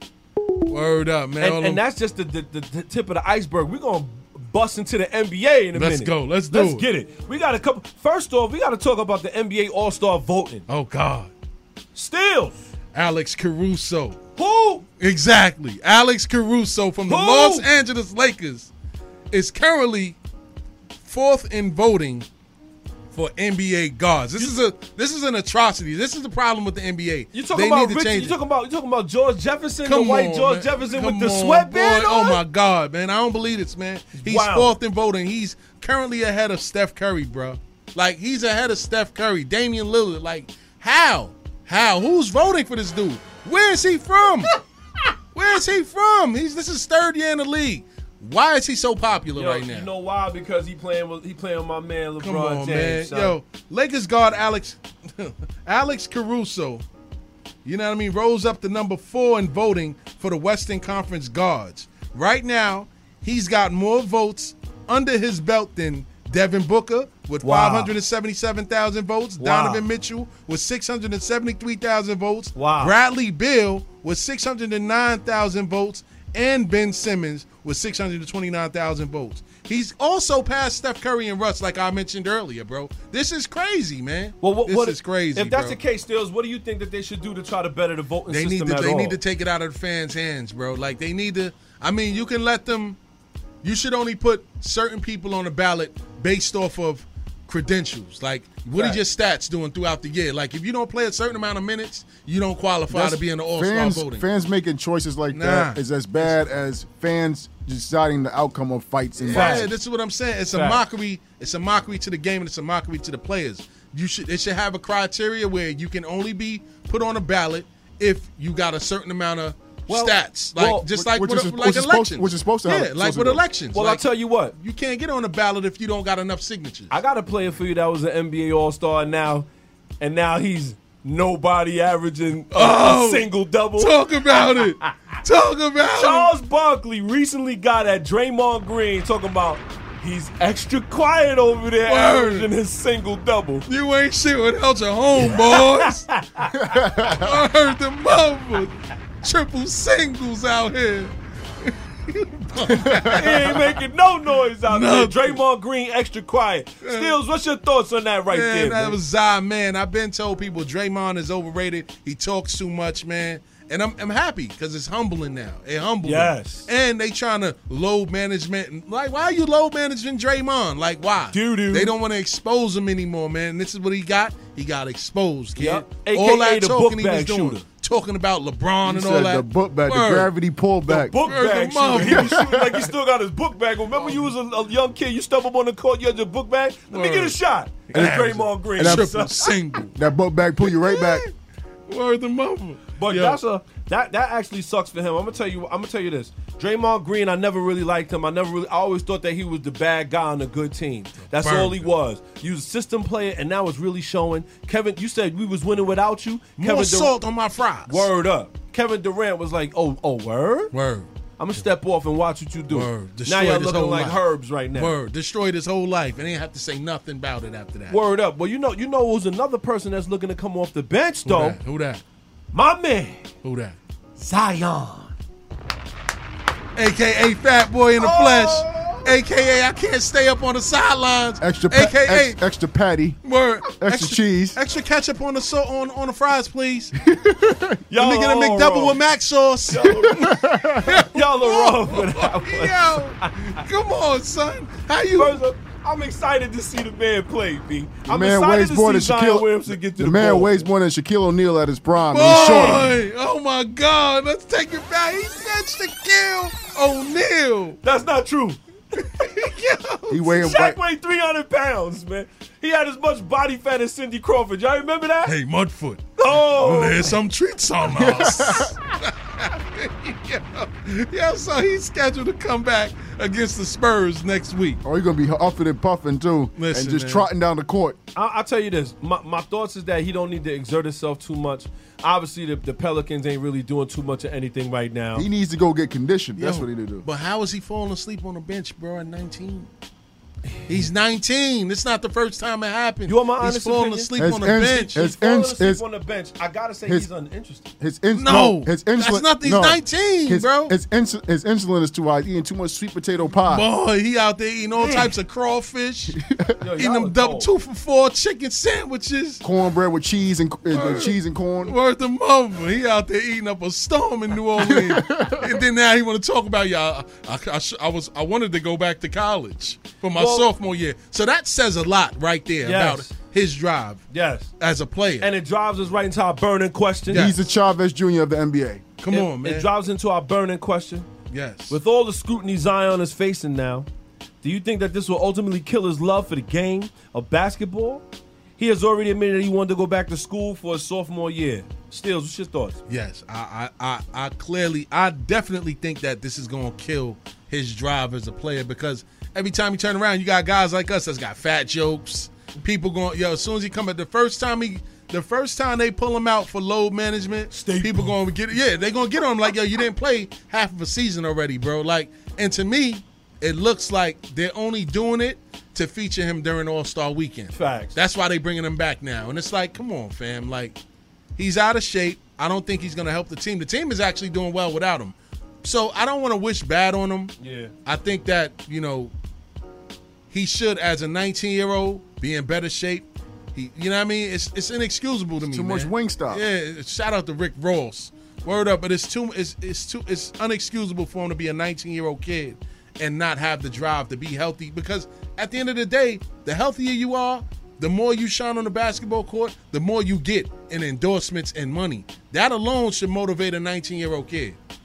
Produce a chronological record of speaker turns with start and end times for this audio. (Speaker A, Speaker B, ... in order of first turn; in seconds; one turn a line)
Speaker A: 0.7-1.8
Speaker B: 1.4-10.7
Speaker A: 5.7-6.9
Speaker A: 10.7-11.3
Speaker B: 11.9-12.6
Speaker A: 12.9-14.2
Speaker B: 14.3-14.8
Speaker A: 15.0-18.7
Speaker B: 17.1-17.7
Speaker A: 19.3-20.2
Speaker A: 21.0-22.2
Speaker A: 23.1-28.4
Speaker B: 27.3-32.4
Speaker A: 29.8-44.5
Speaker B: 34.1-34.7
Speaker A: 45.3-49.9
Speaker B: 49.3-53.4
Speaker A: 52.2-56.8
Speaker A: 57.6-85.8
Speaker B: 67.4-67.9
Speaker B: 69.4-69.9
Speaker B: 72.5-72.9
Speaker B: 84.4-89.2
Speaker A: 88.3-93.0
Speaker A: 93.6-104.2
Speaker B: 98.7-99.0
Speaker C: 102.9-109.7
Speaker A: 105.3-106.4
Speaker A: 109.2-126.9
Speaker B: 109.3-109.7
Speaker B: 110.5-110.8
Speaker B: 119.9-120.9
Speaker C: 120.9-123.4
Speaker B: 123.7-124.5
Speaker B: 126.9-129.5
Speaker B: 130.0-135.1
Speaker A: 132.5-136.3
Speaker B: 135.9-143.7
Speaker A: 141.8-142.5
Speaker A: 143.7-146.1
Speaker B: 145.3-146.6
Speaker C: 146.6-147.4
Speaker A: 147.0-153.8
Speaker C: 152.7-153.1
Speaker B: 153.1-159.0
Speaker A: 154.6-155.4
Speaker A: 156.8-157.2
Speaker A: 158.3-180.3
Speaker B: 166.0-166.7
Speaker B: 171.3-171.9
Speaker B: 175.6-177.6
Speaker C: 178.8-181.2
Speaker B: 180.9-189.5
Speaker A: 181.0-182.4
Speaker C: 182.0-182.9
Speaker A: 186.9-187.4
Speaker A: 187.9-189.9
Speaker C: 188.8-189.1
Speaker C: 189.9-191.2
Speaker A: 190.6-191.3
Speaker A: 191.9-193.4
Speaker B: 193.0-207.2
Speaker A: 201.2-201.9
Speaker A: 206.6-208.1
Speaker B: 207.8-210.7
Speaker A: 210.7-211.1
Speaker B: 211.4-214.9
Speaker A: 212.7-218.0
Speaker B: 217.9-221.6
Speaker A: 221.2-222.0
Speaker B: 222.5-223.3
Speaker A: 223.4-223.8
Speaker B: 224.2-225.1
Speaker A: 226.8-232.4
Speaker B: 228.0-229.1
Speaker C: 231.4-234.6
Speaker A: 233.2-236.9
Speaker C: 237.0-237.8
Speaker B: 237.9-239.0
Speaker A: 237.9-245.4
Speaker B: 239.7-240.2
Speaker C: 240.1-241.0
Speaker B: 241.0-243.6
Speaker B: 245.2-250.6
Speaker C: 248.1-252.9
Speaker A: 252.1-257.8
Speaker B: 257.8-258.6
Speaker A: 259.0-260.4
Speaker C: 260.1-260.8
Speaker B: 260.3-265.3
Speaker A: 265.2-274.8
Speaker B: 266.2-267.2
Speaker C: 267.9-268.7
Speaker C: 274.8-278.0
Speaker A: 276.6-277.3
Speaker B: 278.1-285.3
Speaker C: 285.1-287.0
Speaker A: 286.4-289.7
Speaker A: 290.7-295.0
Speaker B: 293.1-294.1
Speaker C: 294.1-295.8
Speaker B: 294.8-297.7
Speaker C: 297.8-303.7
Speaker A: 298.1-300.7
Speaker A: 303.4-306.2
Speaker B: 304.8-305.1
Speaker C: 306.2-306.5
Speaker B: 306.6-307.5
Speaker A: 306.8-309.4
Speaker C: 309.4-311.7
Speaker A: 310.7-324.0
Speaker C: 314.6-315.6
Speaker B: 320.1-320.5
Speaker B: 322.6-323.1
Speaker B: 324.1-324.5
Speaker A: 324.6-325.3
Speaker B: 325.2-327.3
Speaker C: 327.1-328.9
Speaker A: 329.0-329.7
Speaker B: 329.1-331.1
Speaker A: 331.3-331.8
Speaker B: 331.7-333.9
Speaker B: 334.4-338.0
Speaker B: 338.6-342.8
Speaker A: 342.9-370.8
Speaker B: 357.5-358.2
Speaker B: 367.5-368.0
Speaker A: 371.4-377.3
Speaker B: 377.4-377.7
Speaker A: 377.8-379.1
Speaker A: 380.3-404.6
Speaker C: 385.4-386.4